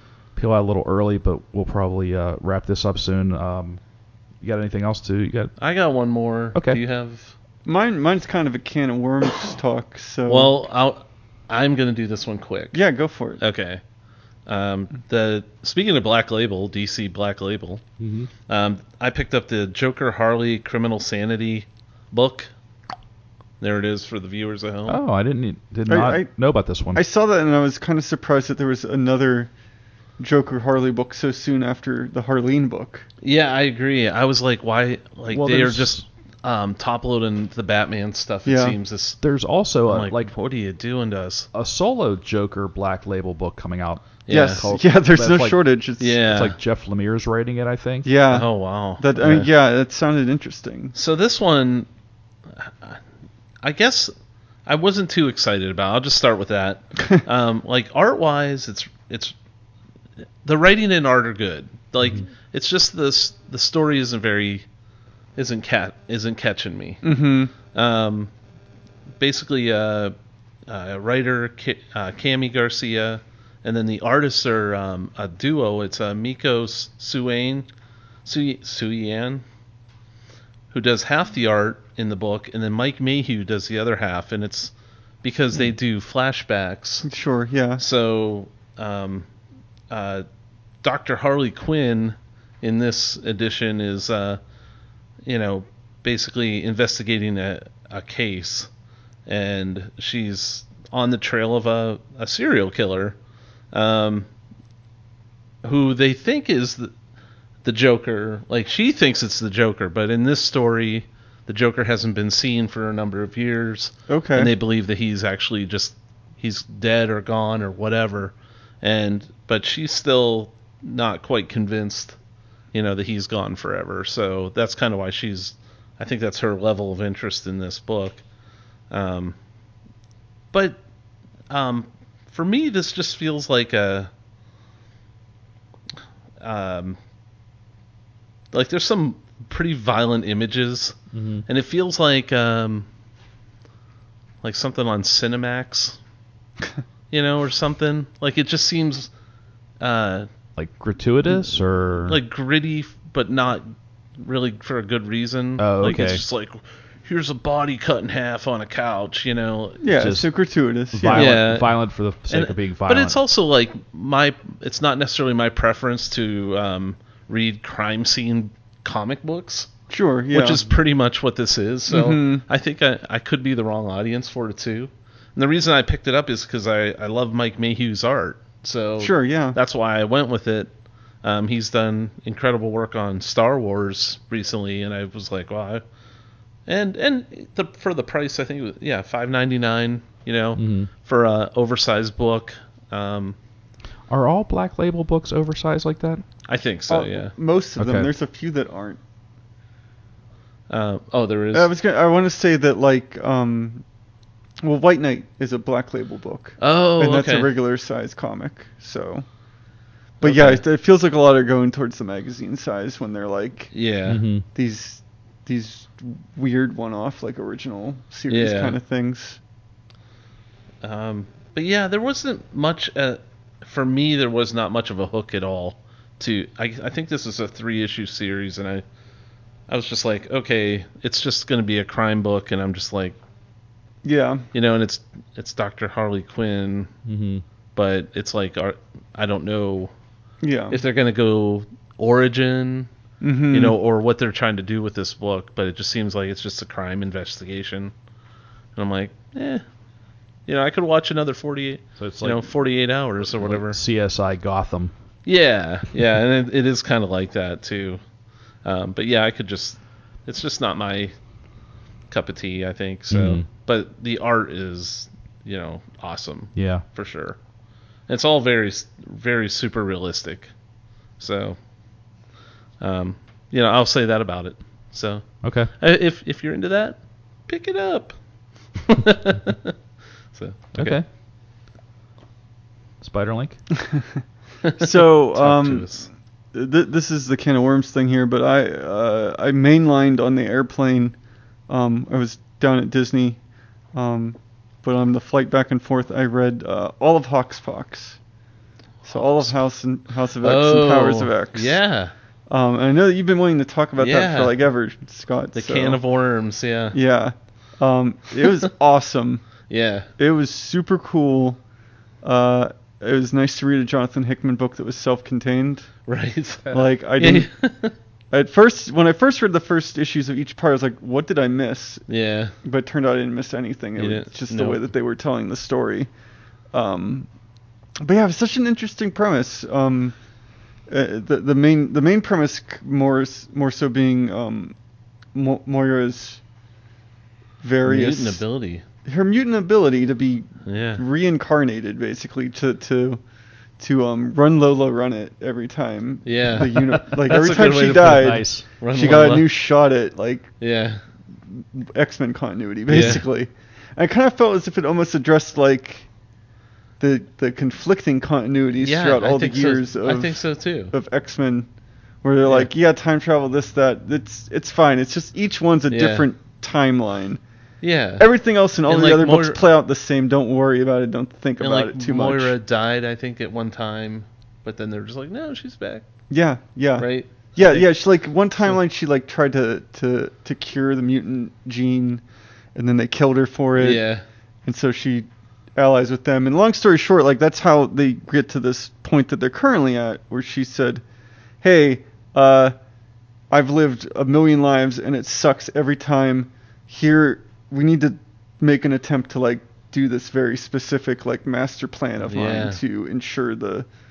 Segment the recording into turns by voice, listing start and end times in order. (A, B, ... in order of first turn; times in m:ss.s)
0:00.3-0:03.8 A
0:04.4-0:05.5 A
0:05.6-0:07.3 B
0:06.5-0:06.8 A
0:07.6-0:10.5 C
0:10.3-0:12.8 B
0:12.7-0:13.4 C
0:13.4-0:13.8 B
0:14.4-0:17.8 B
0:18.0-0:18.3 A
0:18.5-0:22.5 B
0:23.6-0:25.0 B
0:24.9-0:27.0 A
0:25.9-0:29.5 C
0:30.2-0:33.0 C
0:33.2-0:39.2 B
0:35.3-0:36.0 A
0:38.4-0:38.8 C
0:39.2-0:40.3 A
0:39.8-0:41.5 B
0:41.5-0:45.6 A
0:44.3-0:44.7 B
0:44.3-0:46.2 C
0:46.0-0:46.6 B
0:46.2-0:48.1 A
0:48.0-0:50.9 C
0:48.3-0:49.5 B
0:49.2-0:49.4 A
0:50.9-0:51.9 B
0:52.5-0:53.0 B
0:53.6-0:54.1 B
0:54.6-0:59.3 B
1:00.4-1:04.6 B
1:05.4-1:07.1 B
1:07.0-1:07.5 C
1:07.7-1:08.3 B
1:09.2-1:10.1 B
1:10.7-1:17.7 B
1:18.2-1:19.4 B
1:20.7-1:27.1 B
1:27.0-1:27.8 C
1:27.8-1:29.3 B
1:29.9-1:30.2 B
1:30.8-1:34.4 B
1:35.2-1:38.7 B
1:39.2-1:43.2 B
1:43.7-1:44.3 B
1:45.6-1:46.9 B
1:47.6-2:02.2 B
1:54.1-1:54.5 C
2:02.7-2:08.2 B
2:08.9-2:09.4 B
2:10.5-2:10.8 B
2:11.5-2:14.1 B
2:16.4-2:17.0 B
2:18.5-2:22.9 B
2:21.1-2:21.4 A
2:24.4-2:26.0 B
2:27.1-2:29.1 B
2:29.8-2:30.3 B
2:30.6-2:32.2 A
2:32.1-2:39.8 B
2:35.6-2:36.2 A
2:39.8-2:41.4 C
2:40.0-2:40.3 A
2:40.9-2:43.2 A
2:41.1-2:49.7 B
2:49.9-2:50.7 C
2:50.3-3:05.8 B
2:51.9-2:52.4 C
2:59.0-2:59.6 C
3:06.6-3:13.4 B
3:10.6-3:10.9 A
3:14.1-3:16.2 A
3:16.5-3:17.3 B
3:16.9-3:19.0 C
3:17.8-3:18.1 A
3:20.7-3:21.7 B
3:21.5-3:23.8 C
3:24.6-3:29.2 C
3:26.6-3:27.5 B
3:30.2-3:30.6 B
3:30.2-3:33.7 C
3:33.7-3:34.2 B
3:34.1-3:34.4 A
3:34.5-3:39.4 C
3:38.3-3:38.8 B
3:40.8-3:48.8 B
3:49.7-3:53.2 B
3:54.0-3:54.5 C
3:54.5-3:56.9 B
3:57.0-3:57.4 A
3:57.7-3:59.9 B
4:00.4-4:00.8 C
4:00.7-4:02.9 B
4:03.2-4:03.8 C
4:03.5-4:07.9 B
4:08.7-4:09.6 B
4:10.4-4:13.8 B
4:12.0-4:12.5 A
4:13.2-4:14.9 A
4:15.2-4:18.0 B
4:18.6-4:21.1 B
4:22.1-4:27.4 B
4:23.1-4:23.4 A
4:26.5-4:26.8 A
4:28.1-4:30.5 B
4:31.2-4:31.6 B
4:32.8-4:38.2 B
4:35.4-4:35.7 A
4:38.8-4:39.7 B
4:40.3-4:41.0 B
4:40.7-4:41.0 A
4:43.0-4:43.7 A
4:43.8-4:44.0 C
4:44.7-4:46.1 B
4:44.8-4:51.2 C
4:51.7-4:53.4 C
4:53.9-4:58.2 C
4:59.0-5:01.8 C
4:59.1-4:59.5 B
5:00.4-5:02.1 B
5:02.5-5:06.0 C
5:04.0-5:04.5 B
5:05.5-5:07.0 B
5:06.9-5:11.6 C
5:09.7-5:10.1 B
5:12.2-5:15.9 C
5:16.1-5:17.9 B
5:16.7-5:17.5 C
5:18.3-5:22.0 C
5:22.1-5:22.5 B
5:22.6-5:26.1 C
5:24.0-5:24.8 B
5:26.7-5:27.3 C
5:28.0-5:30.2 C
5:30.9-5:34.7 C
5:35.3-5:36.4 C
5:37.6-5:38.4 C
5:37.8-5:38.8 B
5:39.0-5:43.2 C
5:40.6-5:41.0 B
5:43.8-5:50.5 C
5:46.2-5:49.5 B
5:48.0-5:48.6 A
5:50.6-5:51.0 B
5:51.7-5:56.1 C
5:52.9-5:53.2 B
5:57.0-6:01.7 C
5:58.8-6:00.9 B
6:02.2-6:07.4 C
6:02.4-6:02.7 B
6:05.9-6:06.3 B
6:07.8-6:08.3 B
6:08.2-6:12.5 C
6:08.8-6:09.6 B
6:11.6-6:16.0 B
6:16.3-6:22.2 C
6:17.0-6:18.0 B
6:22.7-6:24.0 C
6:23.8-6:24.2 B
6:24.6-6:31.0 C
6:31.6-6:32.7 C
6:33.5-6:43.9 C
6:42.3-6:42.8 B